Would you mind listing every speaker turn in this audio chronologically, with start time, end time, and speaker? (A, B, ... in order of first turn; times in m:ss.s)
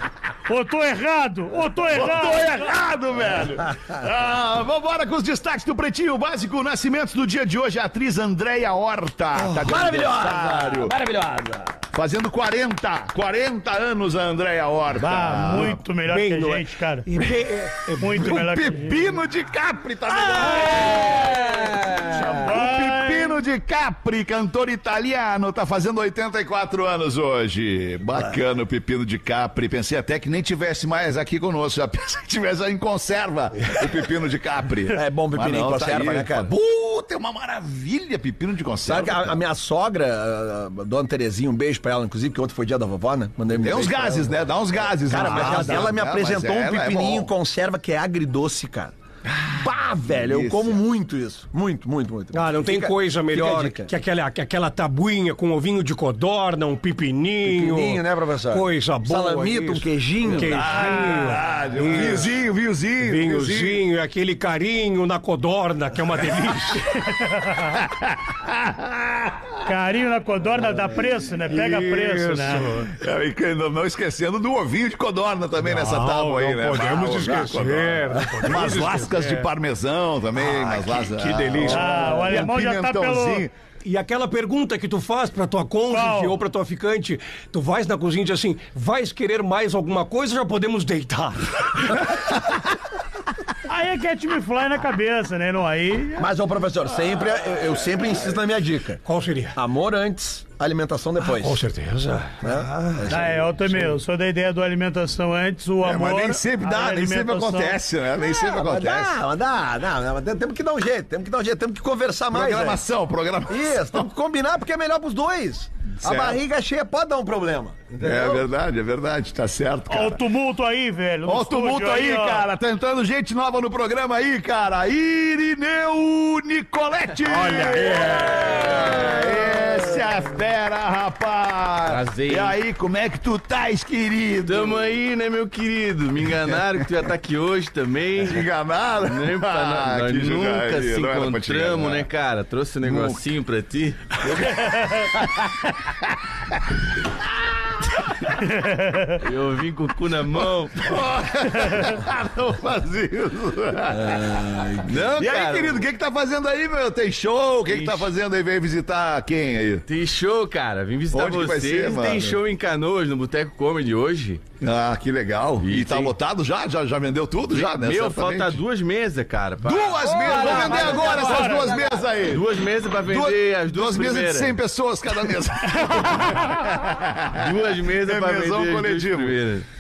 0:00.5-0:02.7 A
0:01.9-0:10.9 B
0:09.4-0:11.5 C
0:09.5-0:11.6 D
0:11.9-0:15.8 B
0:15.0-0:17.1 A
0:15.5-0:18.4 C
0:18.0-0:19.1 A
0:18.2-0:39.4 B
0:20.3-0:21.3 C
0:22.4-0:23.4 A
0:34.9-0:36.5 D
0:38.8-0:48.9 D
0:43.6-0:47.3 B
0:45.1-0:46.0 C
0:49.3-0:50.8 B
0:49.5-0:53.9 D
0:52.3-1:02.4 C
0:57.4-1:00.6 D
1:00.3-1:03.8 B
1:00.6-1:01.4 A
1:03.0-1:06.9 C
1:06.9-1:07.7 A
1:07.8-1:09.5 B
1:09.6-1:12.9 A
1:11.5-1:12.9 C
1:12.9-1:23.5 B
1:15.6-1:19.5 C
1:20.4-1:22.5 C
1:21.7-1:23.4 A
1:23.8-1:32.1 C
1:25.9-1:26.4 A
1:33.6-1:36.3 A
1:36.2-1:39.0 D
1:39.0-1:39.5 C
1:39.5-1:41.6 D
1:41.2-1:43.1 C
1:42.4-1:43.9 D
1:43.1-1:47.8 A
1:45.8-1:49.1 B
1:48.2-1:52.8 D
1:52.3-1:54.1 B
1:53.5-1:58.5 D
1:56.0-1:56.4 B
1:58.0-2:00.2 B
1:59.9-2:02.5 A
2:01.2-2:14.9 B
2:07.2-2:09.4 C
2:11.8-2:12.6 E
2:14.4-2:18.5 E
2:16.5-2:16.8 B
2:18.2-2:22.1 B
2:19.0-2:24.2 E
2:22.8-2:23.2 B
2:24.2-2:26.6 B
2:24.6-2:25.1 A
2:28.3-2:29.2 A
2:29.2-2:31.0 E
2:30.8-2:39.8 B
2:31.6-2:32.0 A
2:33.9-2:35.2 D
2:34.8-2:35.9 E
2:37.7-2:38.1 E
2:39.9-2:44.4 E
2:41.1-2:42.4 B
2:44.6-2:48.6 B
2:45.6-2:46.1 E
2:47.5-2:54.6 E
2:49.6-2:52.5 B
2:50.2-2:51.1 D
2:50.6-2:51.8 A
2:53.0-2:59.4 B
2:56.2-2:56.5 A
2:57.3-2:59.6 E